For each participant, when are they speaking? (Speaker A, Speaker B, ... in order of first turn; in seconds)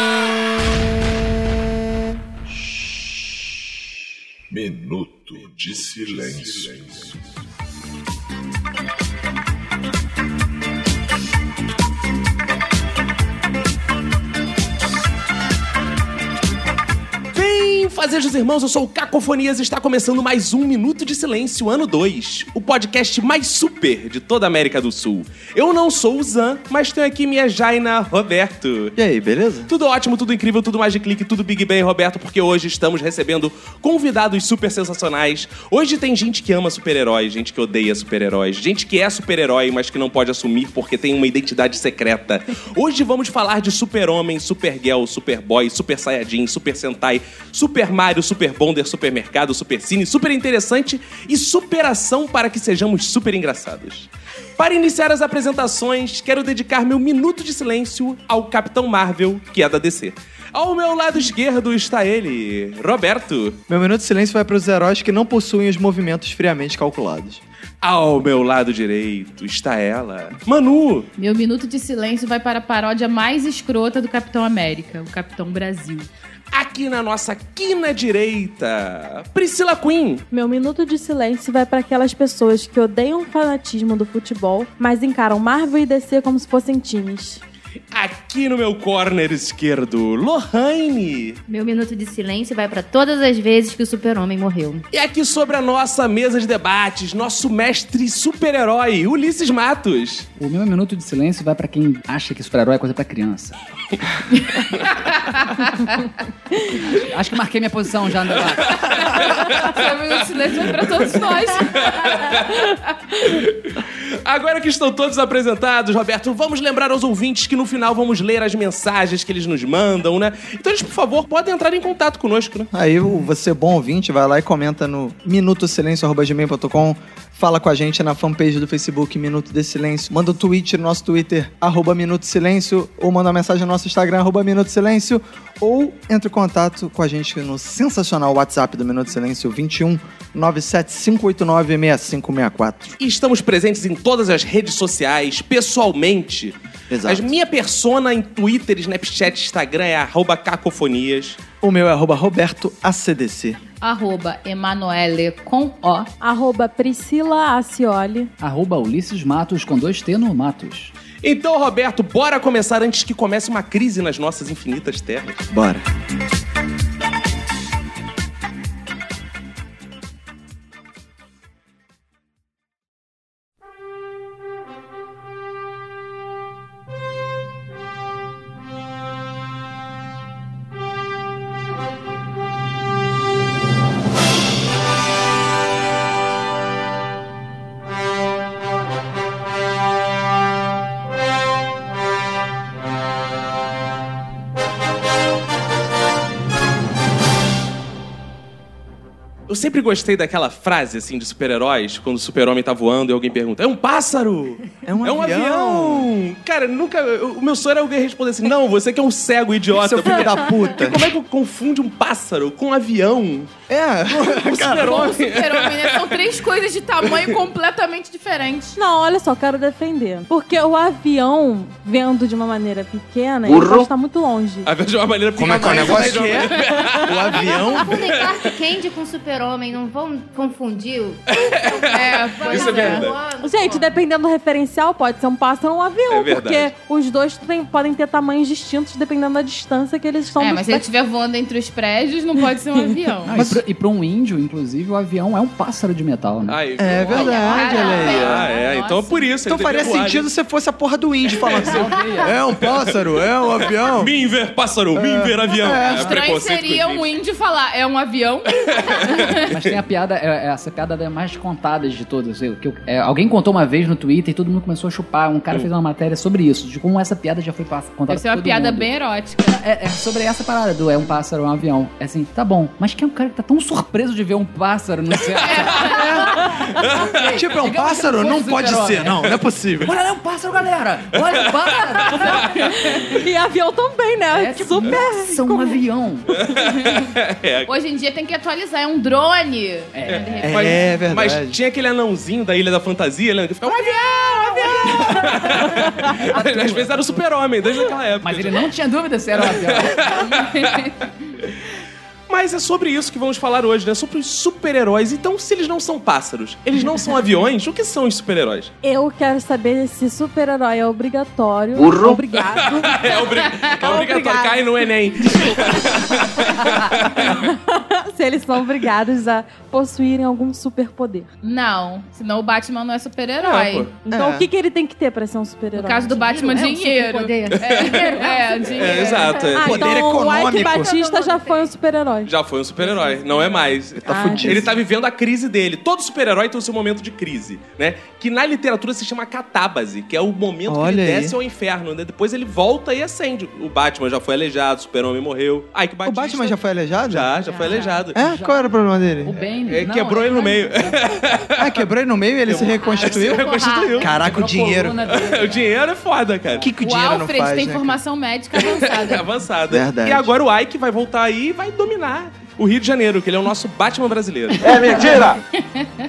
Speaker A: 4.5-7.2, 223.5-223.8, 364.8-365.4
Speaker B: 17.3-28.9, 29.7-63.6, 67.8-71.1, 76.5-80.2, 87.9-91.4, 94.9-100.3, 108.7-112.7, 113.2-122.7, 143.0-151.4, 161.2-165.5, 199.5-213.5, 214.1-216.3, 224.6-228.4, 231.3-233.1, 236.1-236.7, 246.5-250.3, 251.4-251.8, 253.9-257.1, 258.6-259.5, 286.4-287.7, 290.1-298.7, 299.4-300.9, 302.3-308.7, 312.0-317.4, 323.4-323.9, 327.6-328.2, 328.8-330.0, 332.2-348.2, 349.7-351.8, 352.5-354.1, 355.1-356.7, 358.5-365.0
Speaker C: 28.9-29.7, 63.7-67.4, 122.7-142.9, 146.9-147.3, 151.6-153.6, 165.5-165.8, 204.8-206.1, 209.7-211.1, 213.7-215.1, 225.4-227.9, 243.3-243.6, 246.8-248.5, 249.5-254.1, 254.9-256.1, 275.9-276.6, 277.3-279.9, 290.4-291.6, 296.7-297.2, 324.1-324.5, 329.6-330.9, 334.0-334.8, 340.7-341.4, 346.1-347.4, 348.1-349.3, 351.6-355.0, 356.6-358.0, 359.7-360.3
Speaker D: 71.2-76.1, 104.4-105.9, 108.9-112.2, 153.8-156.1, 214.7-218.8, 226.3-226.7, 231.9-233.1, 240.4-243.3, 247.1-249.3, 255.8-259.5, 268.1-269.6, 275.4-276.1, 286.6-286.9, 287.7-290.8, 300.3-300.9, 313.4-314.1, 321.4-323.9, 325.8-329.4, 347.5-347.9, 356.8-359.3, 365.6-365.9
Speaker E: 80.3-87.4, 156.2-158.3, 218.8-224.7, 233.4-240.8, 282.2-285.8, 293.7-295.9, 308.8-313.2, 313.8-314.6, 317.3-321.3, 324.0-326.2, 329.5-332.3, 334.1-334.6
Speaker F: 91.5-94.8, 227.7-234.0, 326.1-329.4, 330.5-331.7, 352.6-354.1
Speaker G: 100.4-103.6, 106.8-108.8, 158.4-160.9, 243.2-246.6, 251.6-252.4, 259.5-268.9, 269.5-279.3, 279.8-282.6, 284.3-286.3, 289.9-290.7, 298.2-300.0, 348.1-348.7, 349.2-351.0, 354.0-355.7, 364.9-365.2